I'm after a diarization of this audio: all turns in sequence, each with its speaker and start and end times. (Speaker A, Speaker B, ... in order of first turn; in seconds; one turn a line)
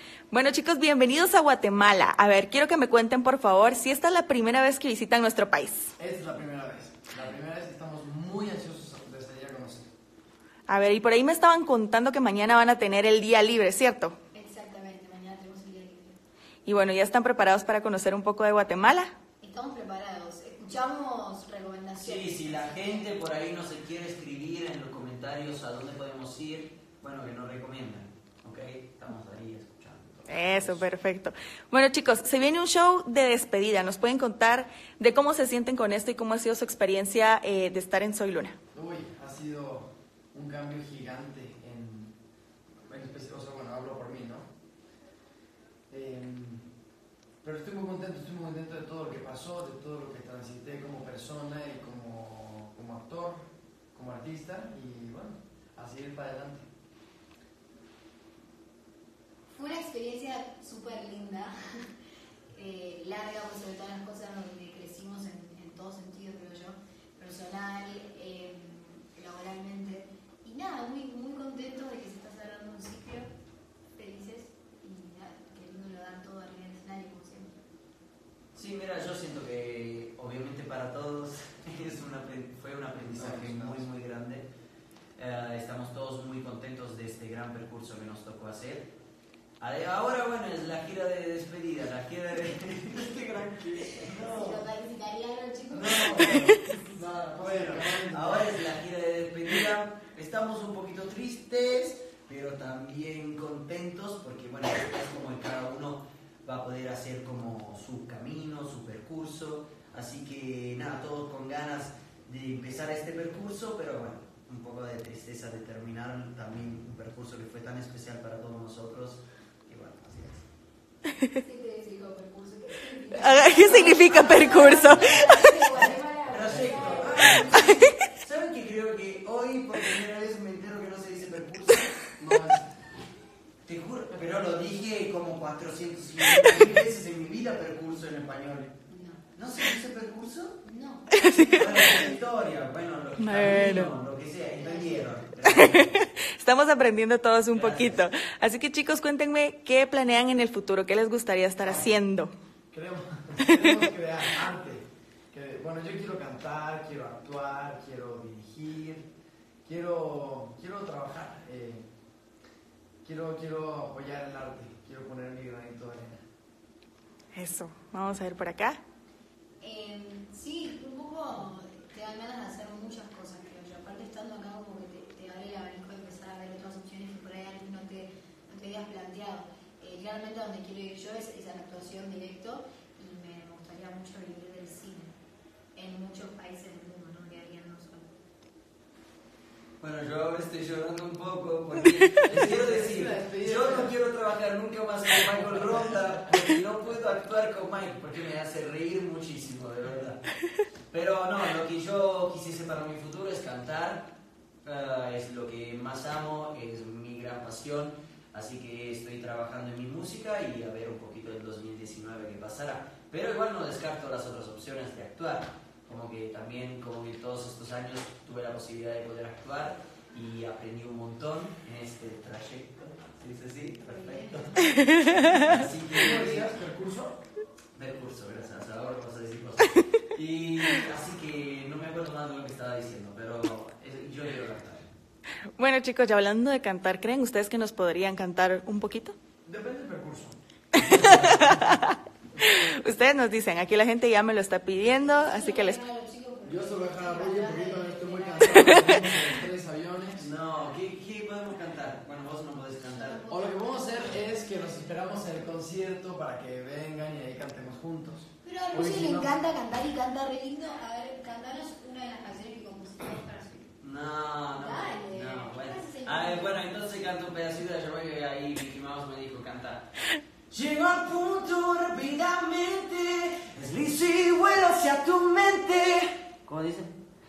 Speaker A: 0.3-5.9
Speaker B: 6.0-9.9
Speaker A: 10.7-14.2
Speaker C: 14.3-16.2
Speaker A: 16.7-19.1
Speaker C: 19.4-23.1
Speaker D: 22.0-30.9
Speaker A: 30.3-38.6
Speaker B: 38.7-42.1
Speaker B: 42.9-44.5
Speaker B: 45.9-46.7
Speaker B: 47.4-56.7
Speaker C: 59.5-61.5
Speaker C: 62.5-73.3
Speaker C: 74.0-77.5
Speaker D: 78.5-84.5
Speaker B: 83.0-83.8
Speaker D: 85.2-88.9
Speaker D: 89.6-94.7
Speaker C: 94.1-96.5
Speaker D: 95.7-96.8
Speaker B: 96.3-98.5
Speaker D: 97.3-120.5
Speaker C: 121.3-127.6
Speaker A: 123.2-125.7
Speaker D: 125.8-132.1
Speaker B: 132.2-132.7
Speaker D: 133.7-138.8
Speaker C: 138.9-139.2
Speaker D: 139.4-140.6
Speaker C: 140.6-141.2
Speaker A: 141.1-141.6
Speaker D: 141.2-146.1
Speaker A: 143.2-143.9
Speaker C: 144.6-145.2
Speaker A: 145.5-152.3
Speaker D: 147.5-148.1
Speaker B: 151.6-152.0
Speaker B: 152.7-159.1
Speaker A: 153.4-153.8
Speaker B: 159.7-161.9
Speaker B: 163.0-166.2
Speaker A: 167.3-168.8
Speaker C: 169.6-185.2
Speaker C: 185.8-188.2
Speaker D: 189.8-200.3
Speaker B: 192.3-193.9
Speaker B: 195.4-195.7
Speaker D: 200.9-204.1
Speaker D: 204.6-226.5
Speaker C: 223.8-224.7
Speaker A: 224.8-225.3
Speaker B: 225.2-227.2
Speaker D: 227.8-234.9
Speaker A: 235.6-239.2
Speaker B: 239.5-240.4
Speaker A: 240.8-245.8
Speaker D: 240.8-241.6
Speaker B: 240.9-241.5
Speaker C: 244.9-249.2
Speaker B: 246.4-250.3
Speaker D: 250.2-253.2
Speaker C: 252.8-254.9
Speaker B: 253.3-259.3
Speaker C: 258.4-263.7
Speaker D: 263.8-269.9
Speaker C: 264.6-266.6
Speaker D: 270.5-277.0